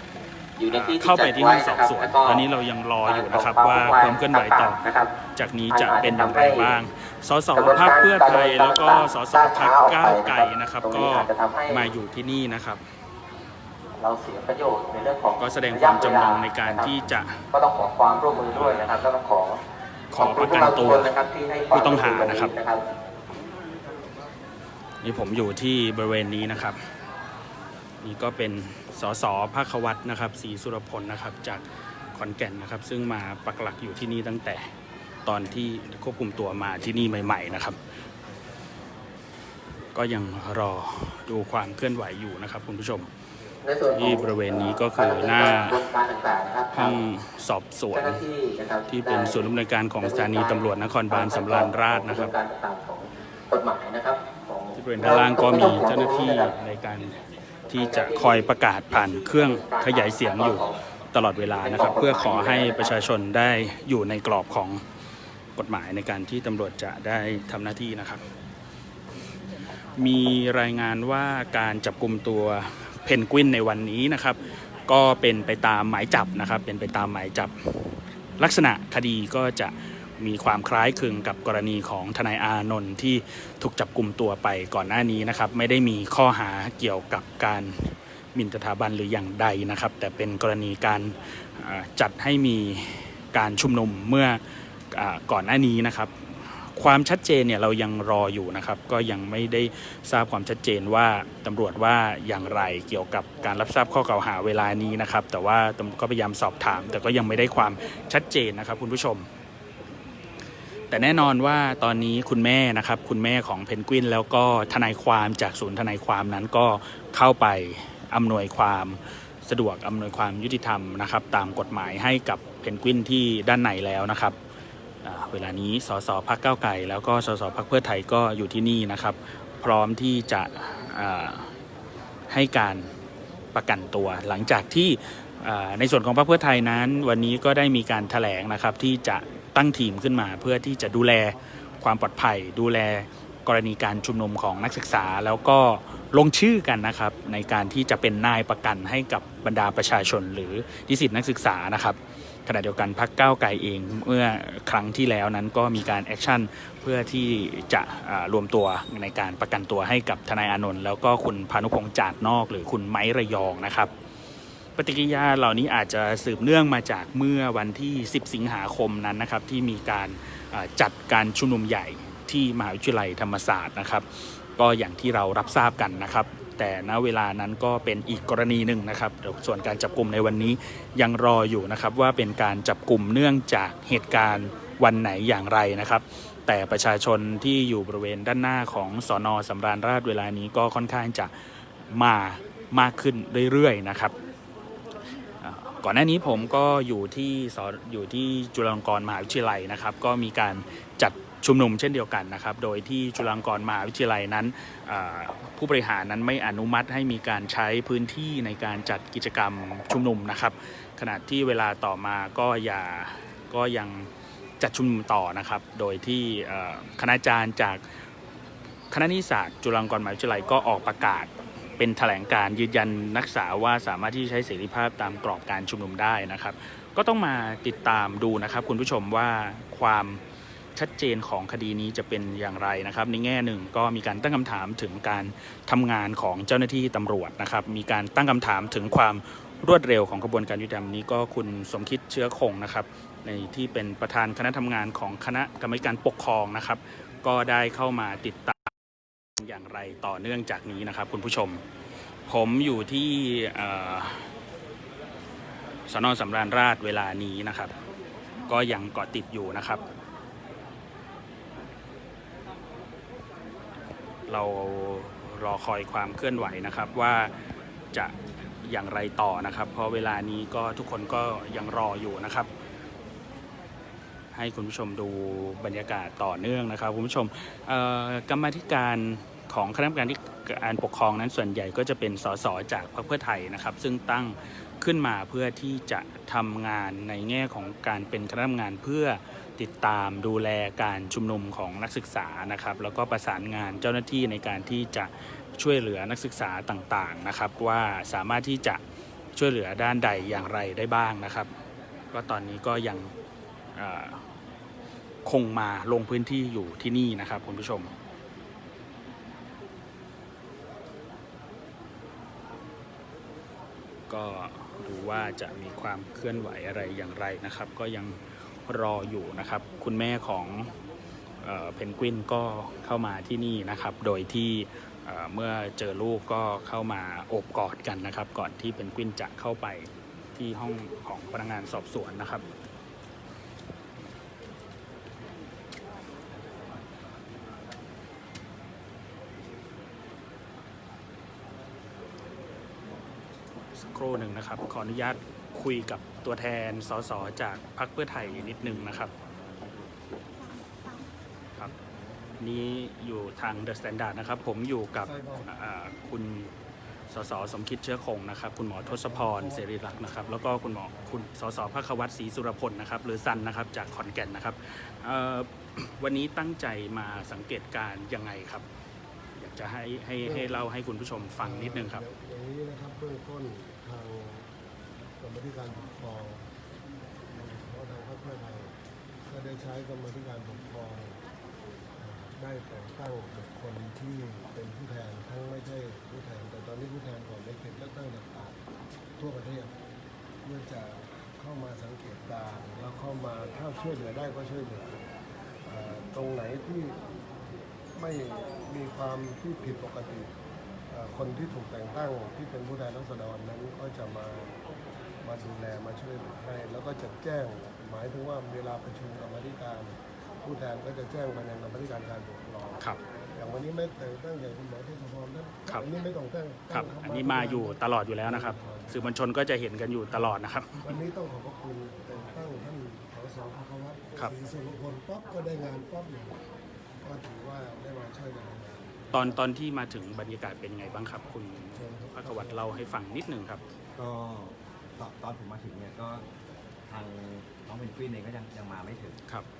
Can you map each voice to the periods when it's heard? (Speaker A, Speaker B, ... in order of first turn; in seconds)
Speaker A: 0.6-2.5, 3.0-5.2, 5.7-6.7, 7.5-11.9, 14.0-16.9, 17.5-19.6, 20.2-22.8, 43.6-47.0, 47.9-56.5, 57.7-60.8, 61.6-62.9
Speaker B: 0.7-4.8, 5.3-12.8, 15.4-17.4, 18.5-18.9, 20.1-21.1, 21.7-22.5, 25.0-26.8, 28.0-34.7, 35.2-37.8, 39.9-43.1, 43.9-45.8, 46.7-48.2, 48.9-52.3, 54.8-64.8, 65.5-68.2, 69.9-109.3, 110.9-124.4, 125.0-131.5, 132.3-132.9, 133.5-163.9, 164.8-194.1, 195.4-214.1, 214.6-217.9, 218.9-230.2, 230.8-248.7, 249.4-251.6, 252.3-254.3, 255.9-257.7, 258.5-259.8, 264.3-267.4, 267.9-272.5, 274.3-298.8, 299.3-301.5, 302.1-303.1, 303.7-304.2, 305.2-307.9, 314.1-320.7, 321.4-332.4, 343.8-349.1, 352.4-356.5, 357.1-368.6, 369.4-372.0, 416.7-420.9, 429.1-433.6
Speaker C: 348.1-350.0, 351.9-352.4, 433.9-436.2, 436.9-439.2
Speaker D: 354.9-355.5, 358.9-359.6, 370.2-370.6, 371.4-374.5, 375.2-376.4, 377.3-378.7, 379.3-381.2, 382.0-388.6, 389.2-389.7, 390.4-395.0, 395.6-397.0, 397.9-400.3, 400.9-404.6, 405.2-419.1, 420.1-426.4, 427.0-429.4, 431.8-432.6